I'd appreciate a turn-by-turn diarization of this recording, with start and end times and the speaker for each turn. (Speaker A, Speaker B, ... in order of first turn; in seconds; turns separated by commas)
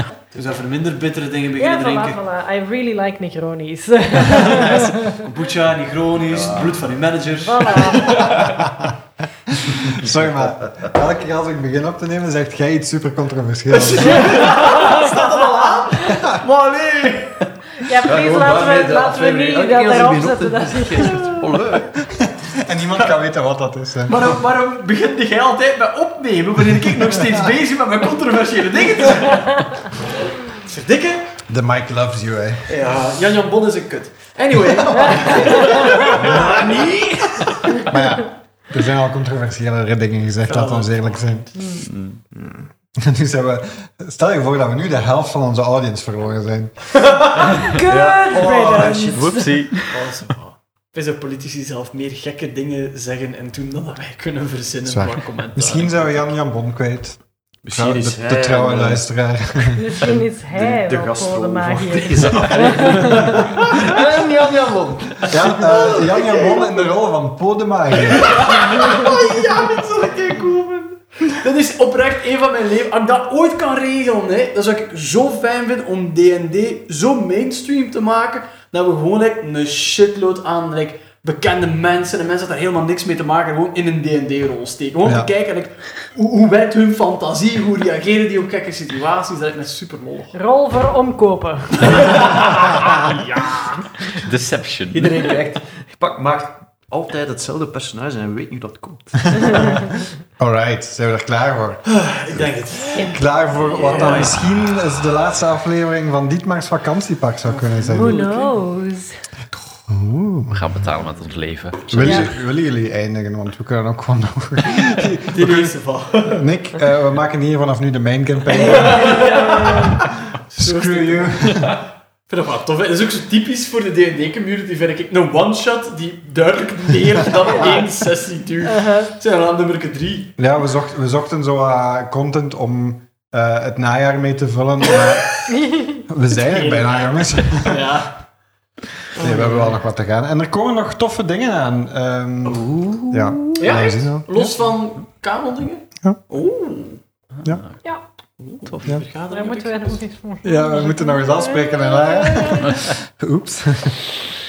Speaker A: 0.3-2.2, Speaker B: 1.5-5.2, Speaker A: 4.3-8.6, Speaker C: 5.6-7.0, Speaker B: 7.3-8.4, Speaker D: 8.3-8.9, Speaker D: 9.5-14.5, Speaker C: 9.7-10.9, Speaker A: 13.7-17.5, Speaker B: 14.1-15.7, Speaker D: 16.1-16.4, Speaker B: 17.8-21.4, Speaker C: 18.0-21.9, Speaker A: 21.0-21.8, Speaker D: 21.9-24.3, Speaker A: 24.1-29.9, Speaker D: 27.1-27.4, Speaker A: 30.5-31.4, Speaker D: 31.5-32.7, Speaker A: 32.7-37.8, Speaker D: 34.9-35.7, Speaker C: 36.1-37.2, Speaker D: 37.8-41.5, Speaker A: 40.4-41.5, Speaker B: 41.5-41.8, Speaker E: 41.8-42.2, Speaker C: 42.3-42.7, Speaker D: 43.0-47.0, Speaker A: 47.0-47.6, Speaker B: 47.5-49.5, Speaker C: 47.7-49.5, Speaker A: 48.8-49.0, Speaker E: 49.1-50.2, Speaker A: 49.9-56.3, Speaker D: 54.9-57.2, Speaker C: 57.6-59.0, Speaker D: 57.7-59.8, Speaker B: 59.8-63.6, Speaker C: 60.0-65.9, Speaker A: 62.2-66.7, Speaker D: 65.3-68.4, Speaker A: 68.0-90.4, Speaker D: 85.0-85.3, Speaker B: 90.3-92.3, Speaker A: 91.8-93.9, Speaker E: 94.1-95.2, Speaker A: 94.9-95.6, Speaker C: 94.9-99.8, Speaker D: 100.4-108.2, Speaker A: 101.8-103.1, Speaker B: 102.9-103.2, Speaker C: 103.7-104.6, Speaker A: 103.7-104.4, Speaker A: 107.5-108.5, Speaker B: 107.9-109.2, Speaker D: 109.9-110.7, Speaker E: 110.5-112.4, Speaker D: 111.9-119.4, Speaker B: 112.0-112.3, Speaker A: 115.3-116.5, Speaker A: 118.5-121.7, Speaker B: 118.9-119.9, Speaker D: 120.6-121.7, Speaker A: 122.3-130.4, Speaker B: 128.6-129.1, Speaker D: 130.4-135.4, Speaker A: 135.0-135.5, Speaker B: 135.5-136.0, Speaker D: 136.0-138.0, Speaker A: 136.3-138.3, Speaker D: 139.1-144.6, Speaker A: 139.2-139.8, Speaker C: 142.4-143.6, Speaker A: 143.6-147.0, Speaker E: 147.3-147.8, Speaker A: 148.4-150.0, Speaker E: 148.7-149.0, Speaker B: 149.3-152.8, Speaker D: 150.4-154.2